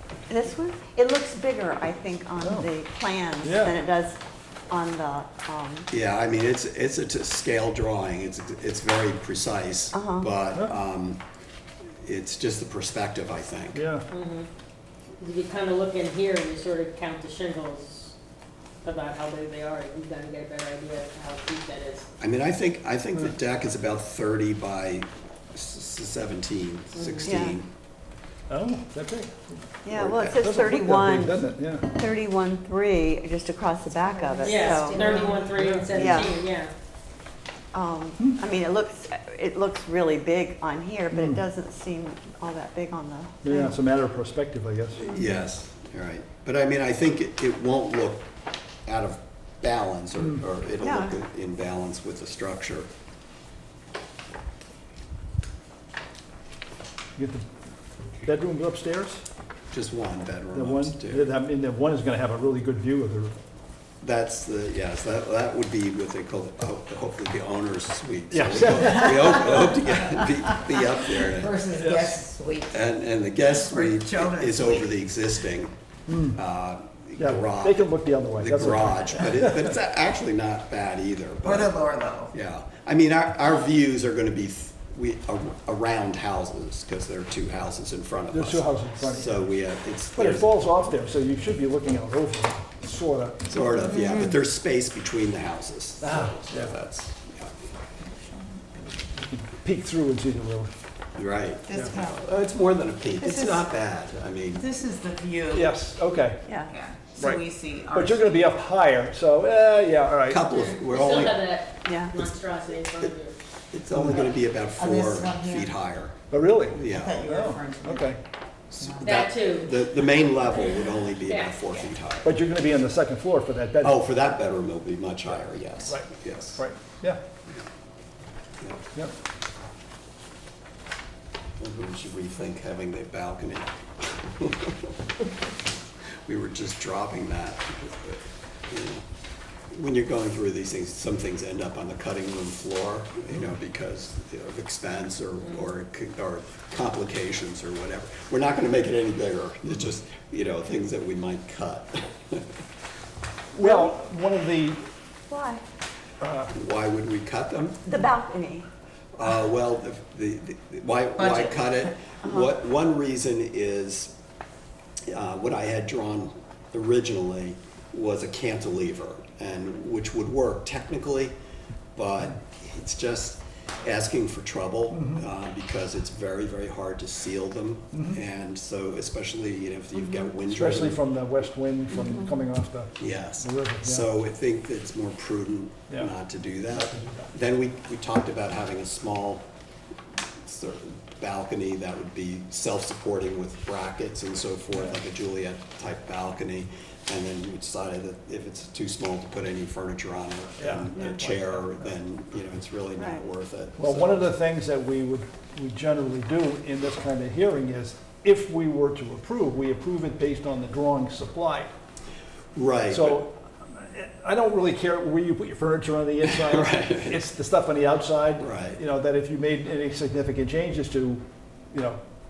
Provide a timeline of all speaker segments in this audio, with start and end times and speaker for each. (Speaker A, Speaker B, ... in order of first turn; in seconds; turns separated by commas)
Speaker A: 0.3-4.2, Speaker B: 2.4-2.7, Speaker B: 3.4-3.7, Speaker A: 4.7-5.9, Speaker C: 5.9-11.2, Speaker A: 9.9-10.3, Speaker C: 12.0-13.8, Speaker B: 13.7-14.1, Speaker D: 14.1-14.5, Speaker D: 15.2-18.1, Speaker D: 18.8-22.1, Speaker C: 22.2-27.7, Speaker D: 26.9-27.3, Speaker A: 27.2-27.6, Speaker B: 28.5-29.6, Speaker A: 29.8-35.4, Speaker C: 29.9-30.4, Speaker B: 30.3-32.0, Speaker E: 34.0-35.5, Speaker D: 34.4-36.7, Speaker B: 35.5-36.2, Speaker A: 35.9-36.3, Speaker A: 37.7-43.8, Speaker B: 41.1-41.4, Speaker B: 43.4-45.0, Speaker C: 45.0-48.3, Speaker C: 48.9-52.9, Speaker A: 50.8-51.1, Speaker B: 57.1-57.5, Speaker B: 58.2-59.2, Speaker C: 59.7-61.3, Speaker B: 60.5-63.4, Speaker C: 64.0-71.8, Speaker B: 68.3-69.7, Speaker E: 71.2-72.8, Speaker B: 71.8-72.2, Speaker C: 72.7-75.7, Speaker E: 73.5-74.9, Speaker B: 76.1-76.4, Speaker C: 76.3-90.6, Speaker B: 77.2-79.7, Speaker E: 81.4-82.3, Speaker B: 88.3-89.4, Speaker B: 90.1-93.5, Speaker C: 93.5-97.5, Speaker A: 93.9-94.3, Speaker B: 96.0-96.7, Speaker E: 98.0-98.6, Speaker B: 99.2-100.7, Speaker C: 101.2-104.7, Speaker E: 101.7-102.2, Speaker E: 103.2-103.6, Speaker E: 104.5-105.7, Speaker B: 105.5-106.5, Speaker A: 106.5-106.7, Speaker E: 106.6-108.4, Speaker B: 107.1-110.4, Speaker C: 110.3-111.4, Speaker D: 110.5-113.3, Speaker A: 111.8-112.2, Speaker C: 113.7-117.2, Speaker B: 113.9-114.3, Speaker E: 114.8-115.7, Speaker B: 116.3-118.2, Speaker E: 116.9-118.1, Speaker C: 118.7-122.3, Speaker E: 118.8-119.1, Speaker D: 119.0-121.9, Speaker B: 122.2-124.0, Speaker C: 123.8-126.6, Speaker B: 125.8-127.2, Speaker C: 131.6-134.9, Speaker C: 136.2-139.0, Speaker C: 139.7-152.4, Speaker B: 153.5-154.8, Speaker A: 153.6-153.9, Speaker A: 155.3-155.6, Speaker B: 156.2-156.5, Speaker C: 156.5-157.8, Speaker A: 157.8-158.7, Speaker C: 159.2-164.1, Speaker E: 161.2-161.5, Speaker A: 162.2-162.5, Speaker C: 165.1-171.3, Speaker C: 171.9-181.0, Speaker B: 174.9-175.2, Speaker B: 177.9-178.2, Speaker B: 180.4-184.1, Speaker C: 183.0-189.5, Speaker B: 186.7-187.3, Speaker C: 190.4-204.2, Speaker B: 200.6-201.9, Speaker B: 203.8-211.7, Speaker C: 212.6-213.2, Speaker B: 212.9-222.0, Speaker C: 216.2-217.2, Speaker C: 218.4-218.8